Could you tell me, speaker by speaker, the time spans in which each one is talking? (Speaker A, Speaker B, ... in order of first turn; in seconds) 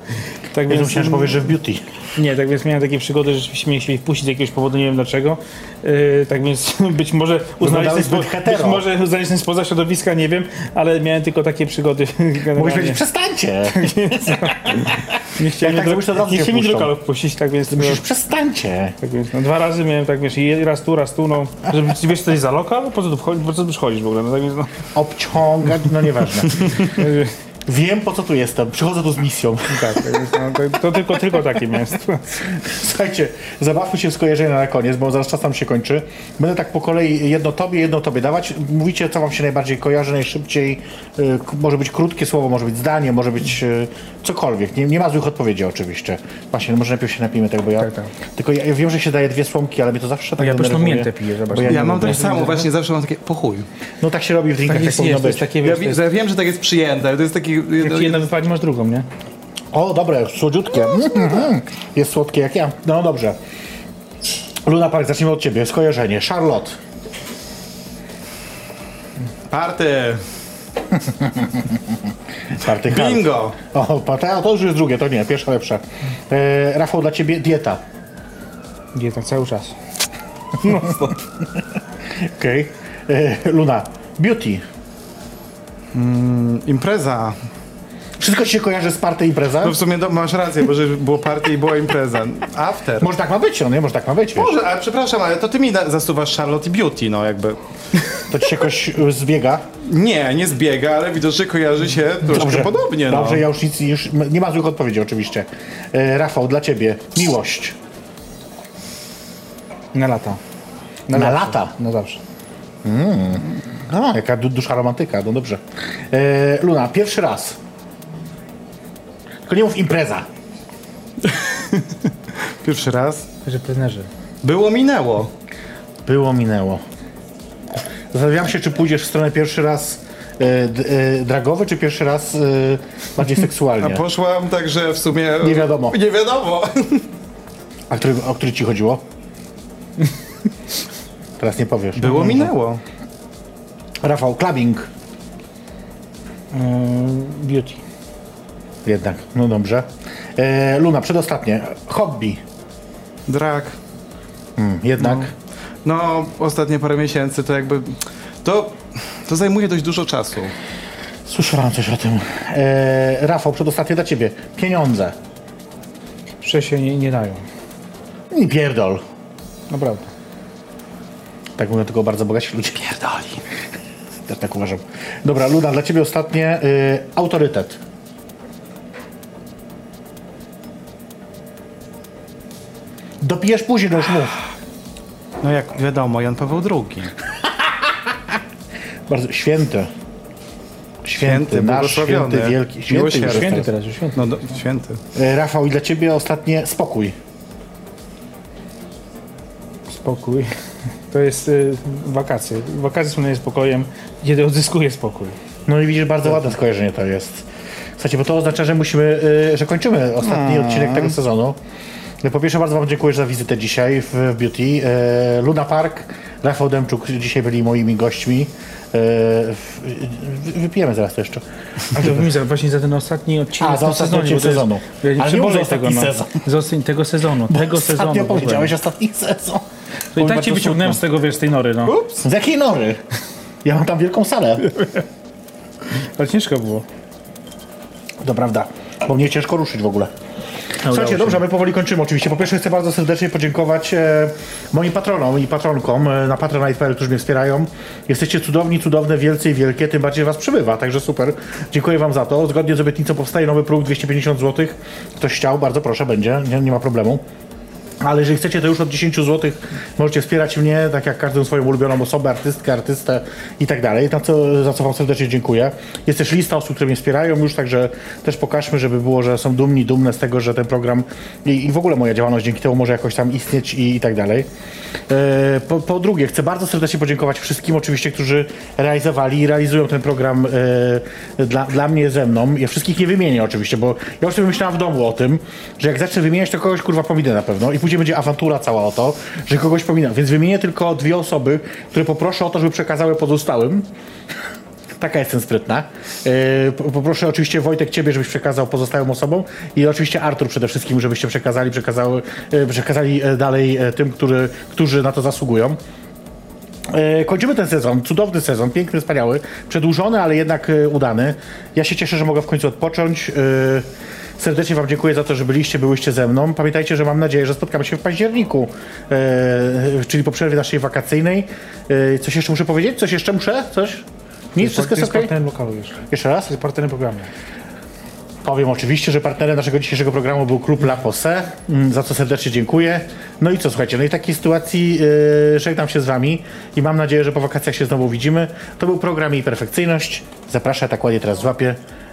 Speaker A: 0.5-1.5, 2.2-13.0, 13.7-18.0, 19.0-24.7, 26.8-27.3, 29.7-32.3, 47.8-48.1, 50.4-52.7, 54.7-56.0, 57.8-59.1, 78.9-79.8, 80.6-81.2, 109.9-110.4, 111.1-112.2, 123.5-124.1, 146.5-147.8, 166.4-167.4, 169.7-170.1, 193.2-194.5, 199.9-200.6, 201.1-205.4, 221.9-228.7, 230.1-232.0, 236.2-236.9, 240.9-241.4, 324.6-327.3
Speaker B: 0.7-1.8, 7.6-8.9, 12.6-16.9, 17.7-19.0, 24.9-26.9, 27.7-30.2, 32.4-52.3, 54.0-55.5, 59.7-63.4, 64.7-66.8, 70.9-72.0, 72.5-77.8, 80.7-81.6, 82.1-84.6, 88.2-89.8, 93.0-94.6, 98.3-99.7, 102.3-107.8, 111.1-111.7, 112.8-117.6, 119.5-120.3, 126.1-126.8, 128.1-134.0, 135.4-136.0, 137.9-139.0, 141.4-142.5, 144.0-144.9, 148.8-152.4, 154.6-155.3, 161.3-165.2, 168.3-169.0, 171.6-173.5, 174.3-177.8, 183.2-184.4, 189.1-189.9, 191.1-193.7, 195.2-197.2, 205.7-207.5, 208.0-211.6, 212.2-221.4, 222.0-222.2, 223.6-226.4, 227.5-231.0, 232.2-233.0, 233.6-234.7, 238.2-240.1, 240.8-257.2, 258.0-274.5, 275.1-293.9, 295.0-305.8, 306.9-313.9, 314.4-325.3, 326.1-326.5, 328.4-341.8
Speaker C: 51.6-53.7, 55.6-58.2, 69.5-70.2, 72.8-73.6, 85.9-87.4, 89.6-93.1, 94.4-98.3, 99.8-103.4, 121.2-123.3, 124.4-125.3, 133.8-137.1, 142.0-142.8, 153.3-153.8, 155.0-155.3, 155.8-160.5, 185.4-187.2, 191.2-195.0, 210.2-211.2, 231.9-232.2